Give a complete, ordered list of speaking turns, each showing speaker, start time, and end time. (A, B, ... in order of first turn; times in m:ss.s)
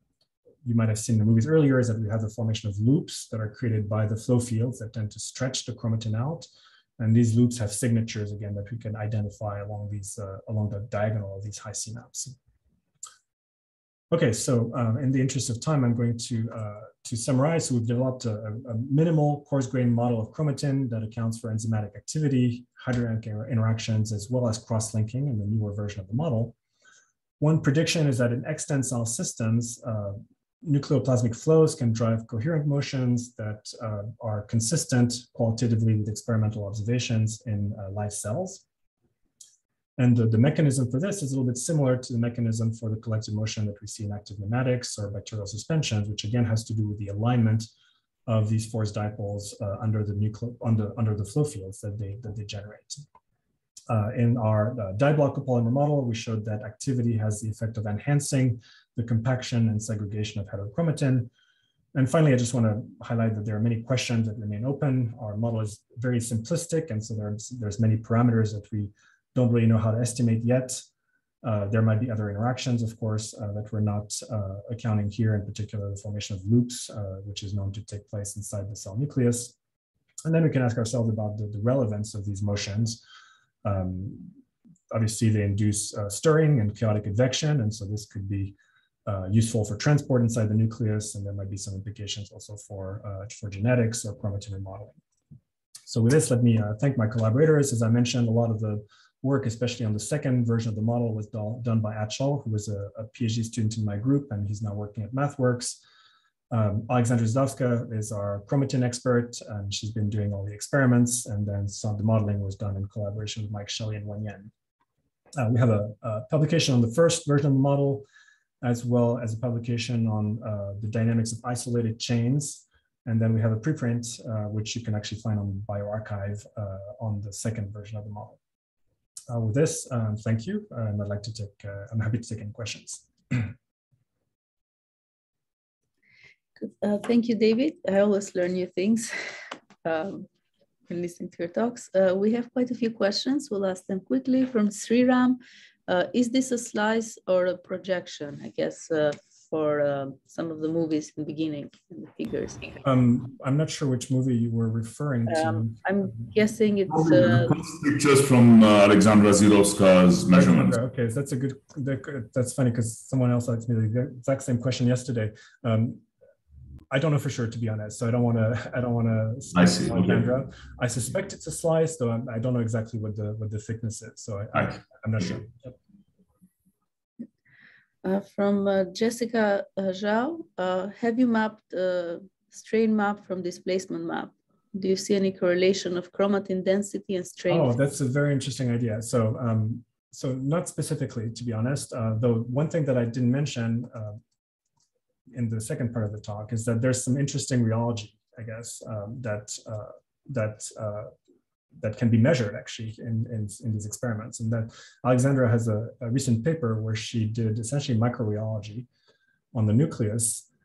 0:00.6-0:12.4 A
0:14.1-0:26.6 A
0:27.4-0:38.6 A
0:40.0-0:47.7 A
0:48.3-0:53.0 A
0:53.9-1:01.3 A
1:01.9-1:10.8 A
1:11.4-1:19.6 A
1:20.2-1:23.0 A
1:23.6-1:24.4 A
1:24.9-1:35.0 A
1:35.9-1:45.8 A
1:46.5-1:54.5 A
1:55.4-1:58.1 A
1:58.6-2:08.4 A
2:09.3-2:13.5 A
2:16.6-2:19.1 B
2:19.8-2:20.3 B
2:20.9-2:32.8 B
2:32.8-2:35.8 A
2:35.3-2:37.6 B
2:36.9-2:40.8 C
2:40.3-2:46.0 A
2:46.9-2:55.8 A
2:49.6-2:50.3 C
2:58.0-3:07.8 B
3:07.5-3:14.2 A
3:15.3-3:21.1 A
3:21.8-3:28.9 A
3:29.5-3:30.5 A